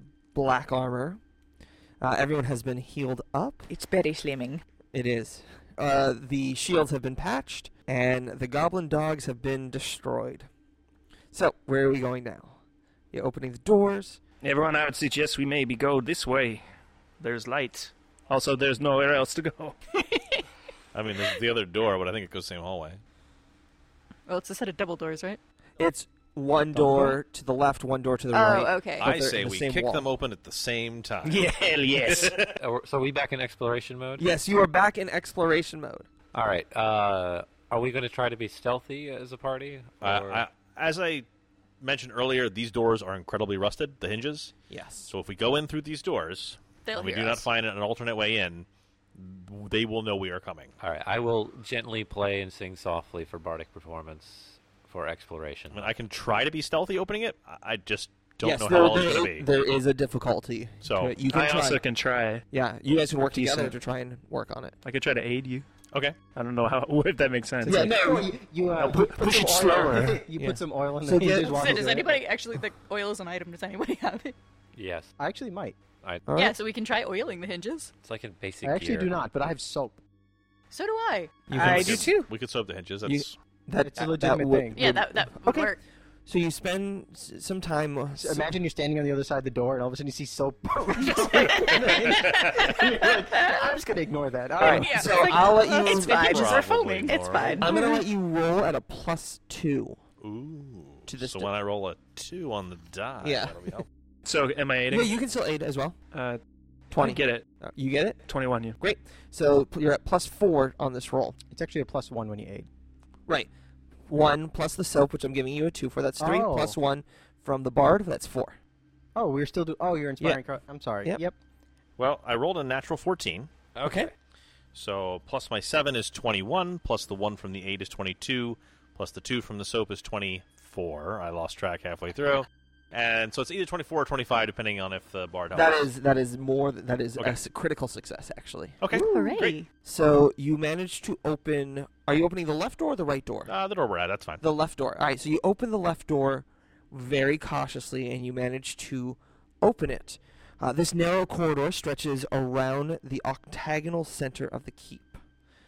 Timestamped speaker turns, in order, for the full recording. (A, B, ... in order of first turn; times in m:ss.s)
0:00.3-0:01.2 A
0:02.0-0:03.7 A
0:03.7-0:04.6 B
0:04.9-0:10.5 A
0:11.3-0:12.6 A
0:13.1-0:14.2 A
0:14.4-0:16.6 C
0:17.2-0:19.8 C
0:20.9-0:23.0 D
0:24.3-0:25.4 E
0:25.8-0:30.0 A
0:28.3-0:29.1 E
0:29.0-0:31.5 D
0:31.2-0:32.6 C
0:32.1-0:34.4 F
0:34.2-0:36.1 A
0:36.3-0:40.4 F
0:40.0-0:41.3 D
0:41.8-0:44.5 D
0:44.7-0:45.1 A
0:45.1-0:50.7 D
0:46.8-0:47.5 E
0:50.8-0:55.9 F
0:55.7-0:59.5 D
0:58.4-1:01.8 A
1:00.8-1:01.2 D
1:01.3-1:02.4 C
1:02.5-1:04.8 A
1:03.2-1:03.8 C
1:04.8-1:05.7 C
1:06.3-1:08.2 C
1:07.6-1:08.3 A
1:07.8-1:12.2 G
1:08.8-1:10.3 C
1:10.4-1:11.6 A
1:11.3-1:14.4 E
1:14.8-1:15.1 F
1:15.2-1:15.8 G
1:16.3-1:16.6 A
1:16.3-1:17.9 E
1:18.0-1:19.1 F
1:18.6-1:20.0 G
1:20.7-1:21.4 E
1:21.5-1:22.2 A
1:21.5-1:22.3 B
1:21.6-1:23.4 D
1:23.1-1:25.7 A
1:23.8-1:24.8 G
1:24.8-1:25.8 E
1:26.3-1:28.4 A
1:28.2-1:35.3 G
1:31.2-1:32.0 E
1:32.8-1:33.5 E
1:34.6-1:36.3 A
1:34.7-1:38.0 E
1:35.1-1:37.7 B
1:36.1-1:37.7 D
1:37.6-1:40.0 A
1:40.2-1:43.8 D
1:41.1-1:41.5 A
1:43.2-1:43.8 A
1:44.2-1:45.1 C
1:44.9-1:46.0 A
1:46.1-1:46.4 C
1:46.9-1:48.2 A
1:47.0-1:47.5 C
1:48.2-1:48.8 C
1:48.8-1:51.4 A
1:51.5-1:52.7 G
1:54.1-1:58.6 A
1:56.2-1:56.8 G
1:59.2-2:01.4 G
2:02.0-2:03.5 D
2:03.8-2:04.1 F
2:03.8-2:04.1 A
2:04.7-2:15.8 D
2:15.5-2:23.5 A
2:18.8-2:19.6 D
2:18.9-2:19.7 E
2:23.5-2:24.4 D
2:24.4-2:35.2 A